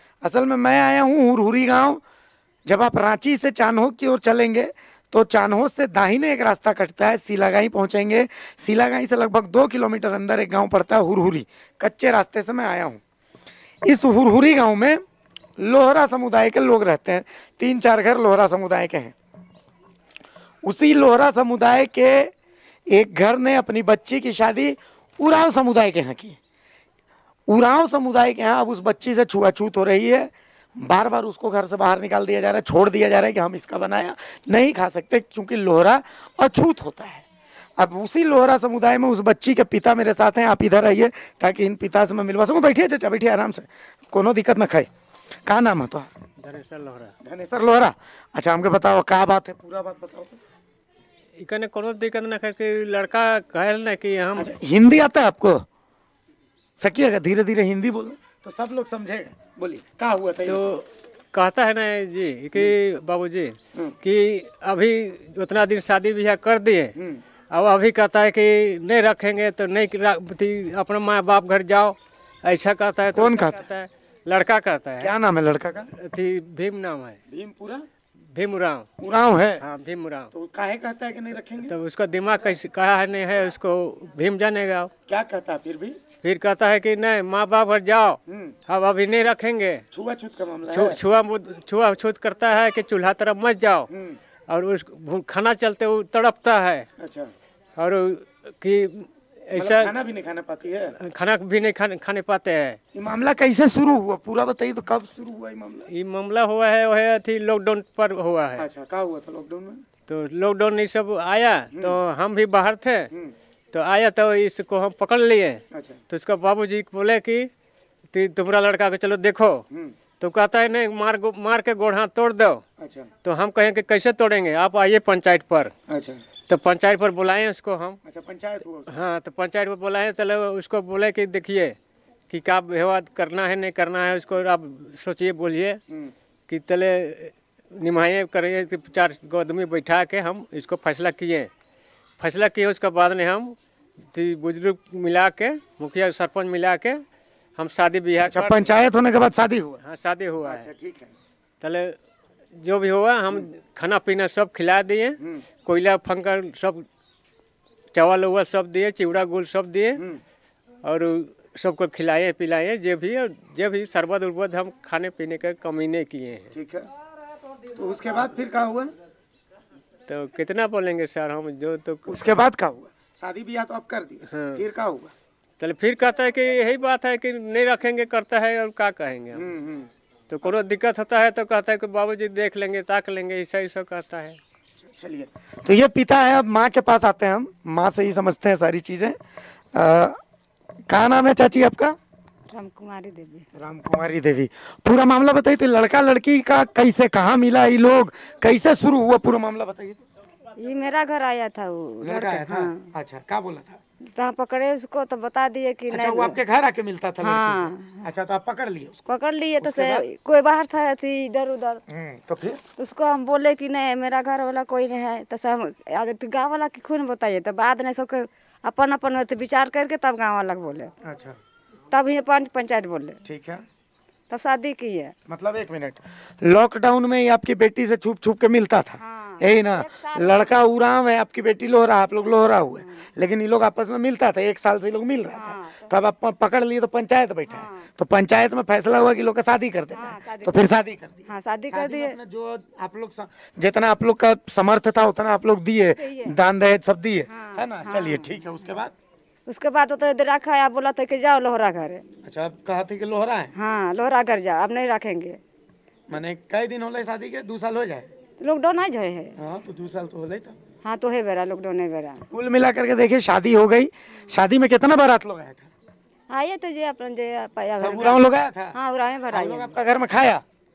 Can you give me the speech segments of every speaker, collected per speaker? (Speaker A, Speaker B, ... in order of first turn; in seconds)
Speaker A: 0.2-2.0, 2.7-13.0, 13.8-15.0, 15.6-19.1, 20.6-22.3, 22.9-26.4, 27.5-37.3, 37.8-44.9, 45.5-46.1, 47.2-50.4, 54.4-55.7, 56.8-60.6, 67.0-67.2, 73.1-73.6, 75.0-75.9, 77.3-77.8, 79.0-79.7, 80.3-81.7, 85.1-86.0, 88.3-88.6, 89.9-91.0, 93.9-94.2, 97.0-97.3, 99.5-101.0, 102.9-105.9, 108.6-109.8, 111.7-112.0, 115.7-116.0, 119.7-120.0, 122.8-123.1, 125.9-126.2, 128.1-128.9, 148.3-149.8, 150.4-151.1, 166.5-166.9, 167.7-168.9, 172.1-175.1, 179.3-179.9, 184.8-189.2, 189.7-190.2, 190.9-192.0, 193.6-200.0, 202.0-203.8, 205.9-209.1, 209.6-210.1, 211.9-212.6, 221.0-221.4, 223.2-223.7, 225.3-248.9, 252.2-253.5, 256.1-258.1, 259.4-260.6, 262.3-265.7, 267.8-268.8, 269.3-270.4
Speaker B: 46.4-47.1, 51.4-54.5, 60.5-66.9, 67.5-75.1, 76.0-77.2, 78.3-78.9, 79.6-80.3, 81.7-84.9, 86.2-89.8, 90.7-93.9, 94.5-96.9, 97.8-100.0, 101.0-102.8, 105.9-108.6, 110.1-113.1, 113.7-117.5, 118.1-119.7, 120.2-122.6, 123.2-125.7, 126.5-128.0, 128.9-131.8, 132.3-135.8, 136.5-141.5, 142.2-143.6, 144.1-147.0, 147.6-148.7, 149.8-150.7, 151.6-152.0, 152.6-156.8, 157.9-160.0, 160.8-166.5, 170.1-172.1, 174.3-174.6, 175.6-179.4, 180.3-184.4
Speaker C: 192.5-193.5, 200.6-202.8, 204.2-206.4, 207.2-208.0, 209.1-211.8, 212.8-220.9, 221.9-223.2, 224.3-225.1, 229.0-230.5, 235.3-235.9, 237.5-237.9, 239.9-240.6, 241.3-242.2, 246.0-246.3, 247.3-248.4, 249.5-252.1, 253.6-255.4, 258.4-259.4, 260.8-262.2, 266.3-269.7